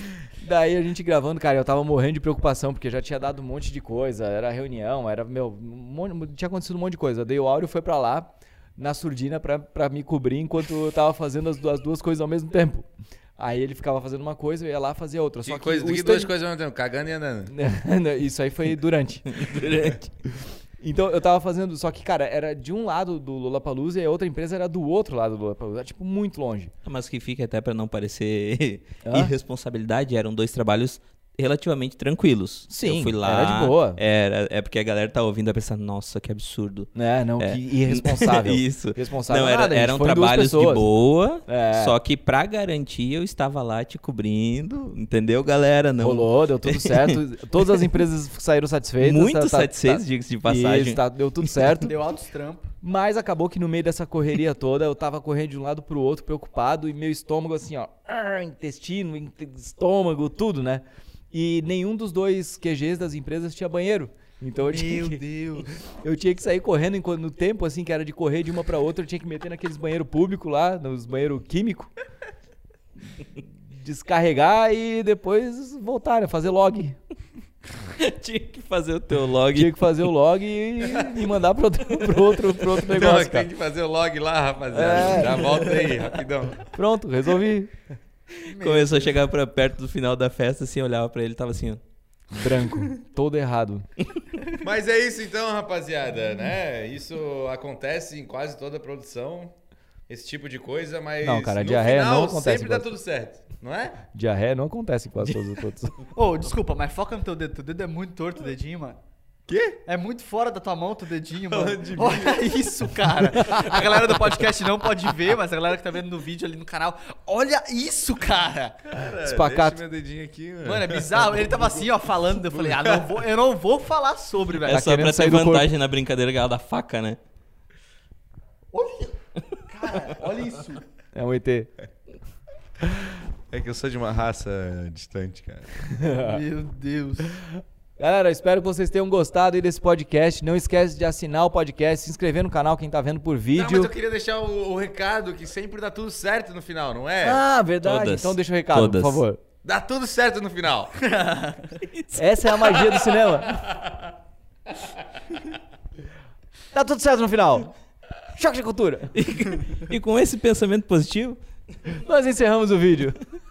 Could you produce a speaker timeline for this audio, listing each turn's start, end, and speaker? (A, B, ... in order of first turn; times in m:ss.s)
0:00.4-0:16.3 A
0:15.4-0:17.5 B
0:17.5-0:20.0 A
0:19.3-0:20.0 C
0:20.8-0:26.7 A
0:26.8-0:48.0 C
0:29.0-0:29.3 A
0:32.7-0:34.0 A
0:36.9-0:40.9 A
0:41.5-0:41.9 A
0:46.0-0:51.9 A
0:49.0-0:51.8 C
0:51.8-0:52.7 D
0:52.8-1:05.2 A
1:04.6-1:05.7 B
1:05.8-1:11.9 A
1:13.7-1:17.0 A
1:18.0-1:20.1 C
1:19.5-1:23.5 A
1:22.9-1:26.7 B
1:24.7-1:25.7 A
1:26.7-1:27.7 A
1:28.5-1:29.2 D
1:28.5-1:31.8 C
1:32.3-1:33.9 A
1:34.6-1:39.5 B
1:40.1-1:44.0 B
1:41.2-1:42.9 A
1:44.1-1:46.0 A
1:46.1-1:49.0 D
1:49.5-1:49.8 B
1:49.8-1:58.8 D
1:51.5-1:52.4 B
1:58.9-2:03.2 B
1:59.2-1:59.8 A
2:00.6-2:04.9 D
2:04.7-2:07.2 C
2:04.7-2:05.7 A
2:08.7-2:09.2 D
2:09.7-2:10.8 D
2:11.1-2:11.7 A
2:13.5-2:15.7 B
2:15.9-2:16.4 A
2:16.2-2:17.3 D
2:17.4-2:23.9 A
2:23.5-2:27.4 B
2:27.2-2:29.4 A
2:27.8-2:29.2 C
2:29.6-2:30.9 B
2:31.0-2:31.8 D
2:31.9-2:33.0 C
2:32.1-2:33.6 A
2:33.5-2:34.1 B
2:36.7-2:37.7 A
2:38.3-2:39.1 A
2:39.1-2:41.4 C
2:41.9-2:43.2 A